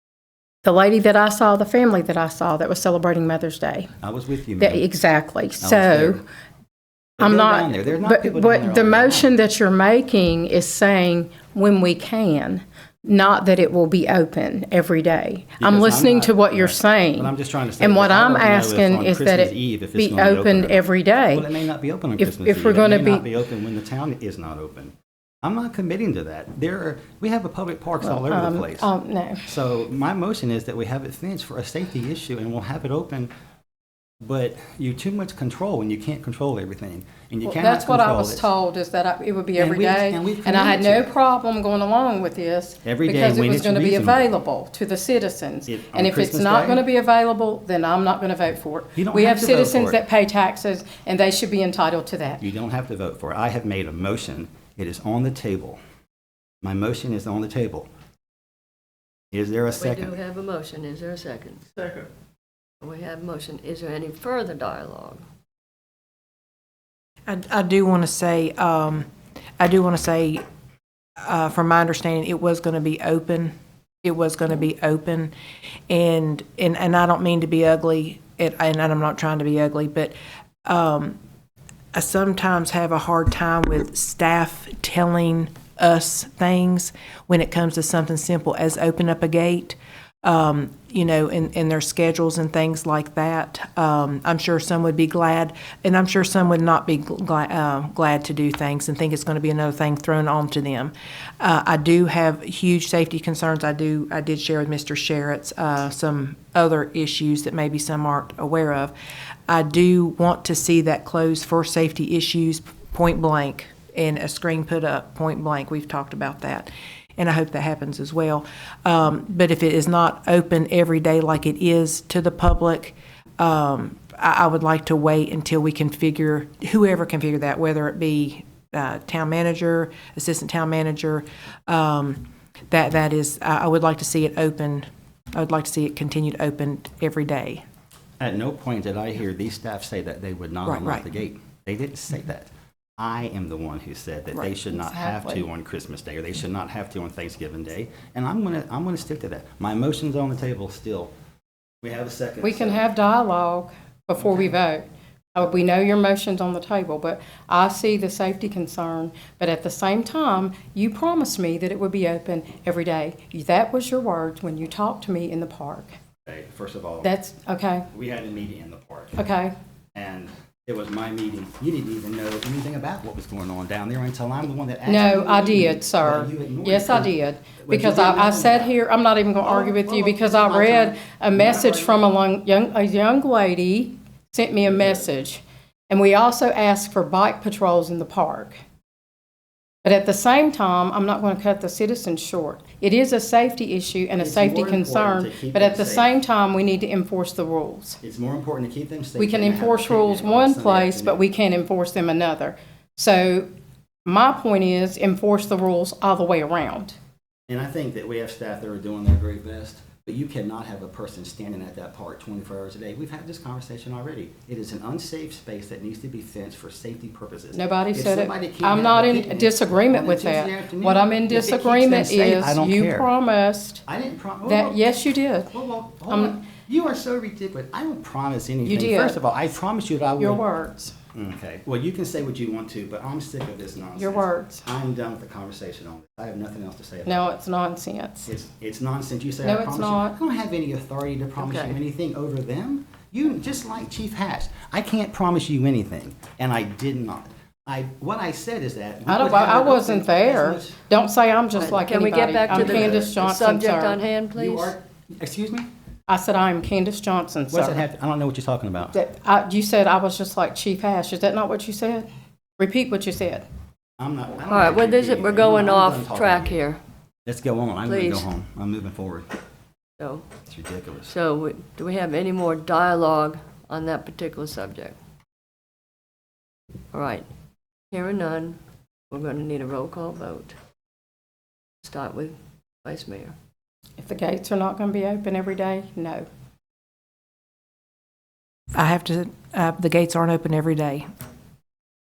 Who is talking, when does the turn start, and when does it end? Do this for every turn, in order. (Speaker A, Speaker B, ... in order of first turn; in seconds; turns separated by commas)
Speaker A: 0.6-3.9, Speaker B: 4.0-4.8, Speaker A: 4.6-6.2, Speaker B: 5.6-6.2, Speaker B: 7.2-9.3, Speaker A: 7.2-21.5, Speaker B: 15.6-28.9, Speaker A: 22.2-23.2, Speaker A: 28.0-29.5, Speaker B: 29.5-33.3, Speaker B: 34.2-38.5, Speaker A: 37.4-52.4, Speaker B: 39.6-41.1, Speaker B: 42.8-44.3, Speaker B: 45.7-46.8, Speaker B: 49.0-50.0, Speaker B: 52.4-55.8, Speaker B: 56.6-57.9, Speaker B: 59.3-60.1, Speaker C: 59.8-62.0, Speaker C: 62.8-65.2, Speaker D: 67.3-69.1, Speaker D: 69.6-70.4, Speaker D: 71.2-73.5, Speaker D: 74.0-75.3, Speaker D: 75.9-81.2, Speaker D: 81.9-108.9, Speaker D: 109.5-137.6, Speaker B: 138.2-151.1, Speaker D: 140.7-141.0, Speaker A: 144.7-145.4, Speaker B: 151.8-152.8, Speaker A: 152.4-165.9, Speaker B: 166.2-167.1, Speaker A: 167.0-167.9, Speaker B: 167.9-169.2, Speaker A: 169.2-169.5, Speaker B: 169.9-178.7, Speaker A: 174.8-188.6, Speaker B: 179.4-182.0, Speaker B: 184.6-185.1, Speaker A: 189.8-198.0, Speaker B: 194.2-196.1, Speaker B: 198.0-201.2, Speaker A: 199.2-203.5, Speaker A: 204.0-206.9, Speaker B: 207.5-223.1, Speaker A: 217.5-223.8, Speaker B: 223.9-224.8, Speaker A: 224.4-225.5, Speaker B: 225.5-230.4, Speaker A: 226.1-226.3, Speaker A: 228.7-229.2, Speaker A: 230.2-230.9, Speaker B: 231.1-237.3, Speaker A: 234.0-234.7, Speaker A: 237.1-238.3, Speaker B: 238.3-250.8, Speaker A: 239.4-240.2, Speaker C: 241.4-241.8, Speaker A: 249.1-254.0, Speaker C: 251.5-254.7, Speaker B: 252.5-253.2, Speaker B: 254.3-255.7, Speaker A: 256.1-257.8, Speaker B: 257.5-258.9, Speaker A: 258.9-263.4, Speaker B: 264.0-266.6, Speaker C: 264.5-266.8, Speaker B: 267.2-269.3, Speaker C: 267.9-268.3, Speaker C: 270.0-270.3, Speaker B: 270.5-271.1, Speaker C: 271.1-275.0, Speaker C: 276.9-277.3, Speaker C: 277.9-280.5, Speaker C: 281.8-283.3, Speaker A: 284.0-286.3, Speaker D: 288.7-291.1